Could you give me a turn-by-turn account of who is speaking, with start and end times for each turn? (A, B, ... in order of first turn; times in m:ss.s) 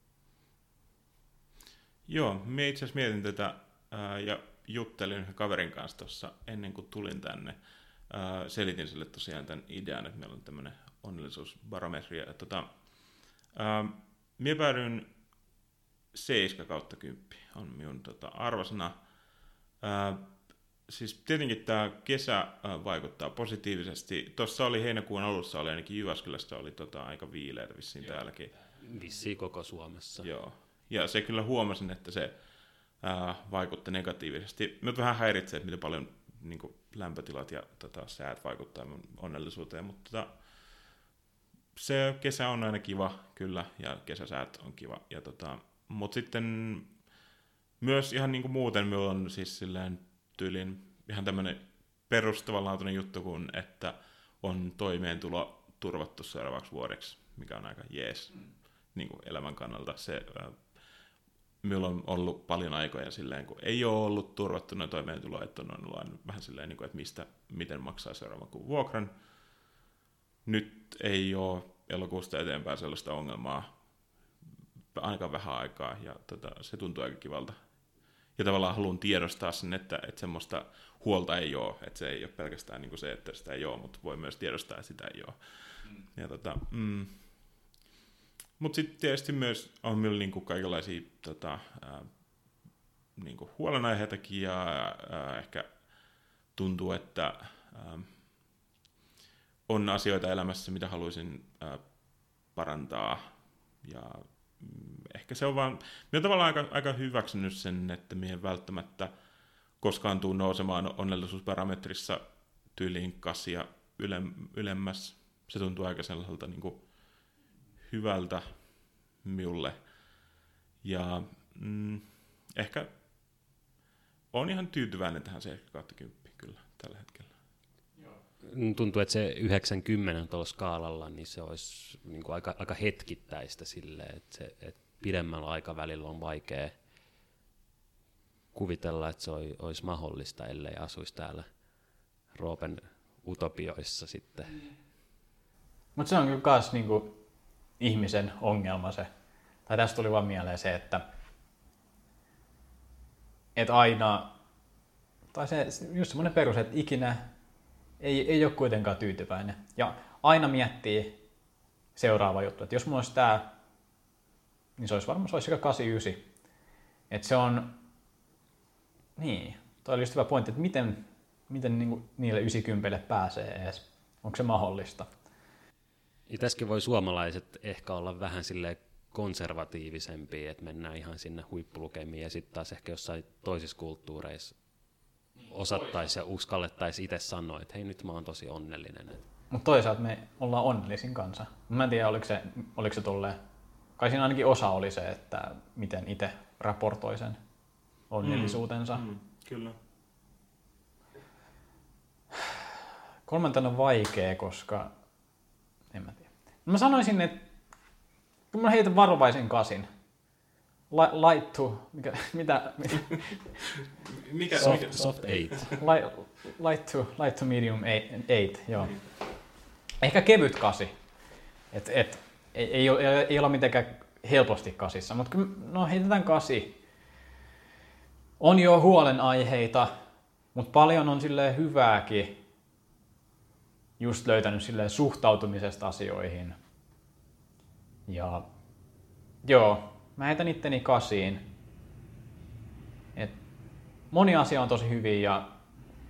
0:02.1-0:07.6 A
0:08.1-0:12.7 A
0:13.5-0:15.1 A
0:16.1-0:19.0 A
0:19.8-0:28.5 A
0:28.8-0:30.3 B
0:30.2-0:32.3 A
0:33.0-0:40.3 A
0:41.7-0:46.9 A
0:47.8-1:00.7 A
1:01.6-1:09.1 A
1:10.4-1:13.7 A
1:14.9-1:17.6 A
1:18.4-1:27.6 A
1:28.6-1:32.1 A
1:33.2-1:35.7 A
1:36.5-1:38.2 A
1:39.7-1:43.2 A
1:43.8-1:49.1 A
1:49.8-1:56.8 A
1:57.8-1:58.5 A
1:59.2-1:59.8 A
2:00.8-2:02.9 A
2:04.3-2:07.3 A
2:08.4-2:16.7 B
2:18.5-2:21.4 B
2:22.3-2:24.6 B
2:26.0-2:27.2 C
2:27.8-2:29.1 C
2:29.7-2:31.0 C
2:33.6-2:34.3 C
2:35.3-2:37.3 C
2:38.0-2:41.2 C
2:42.0-2:43.5 C
2:44.8-2:46.2 C
2:47.1-2:47.8 C
2:49.2-2:55.1 C
2:56.3-3:04.5 B
3:05.5-3:09.2 B
3:09.5-3:13.4 C
3:14.0-3:17.4 C
3:18.1-3:19.0 C
3:18.2-3:19.8 A
3:23.3-3:24.9 C
3:25.9-3:27.4 C
3:28.5-3:29.9 C
3:30.9-3:33.6 C
3:33.8-3:35.7 A
3:34.5-3:35.8 B
3:35.7-3:39.0 C
3:40.0-3:40.9 C
3:41.7-3:46.8 C
3:48.4-3:49.9 C
3:50.5-3:52.4 C
3:54.0-3:56.6 C
3:58.1-3:58.4 C
3:59.4-4:01.4 C
4:04.1-4:05.5 C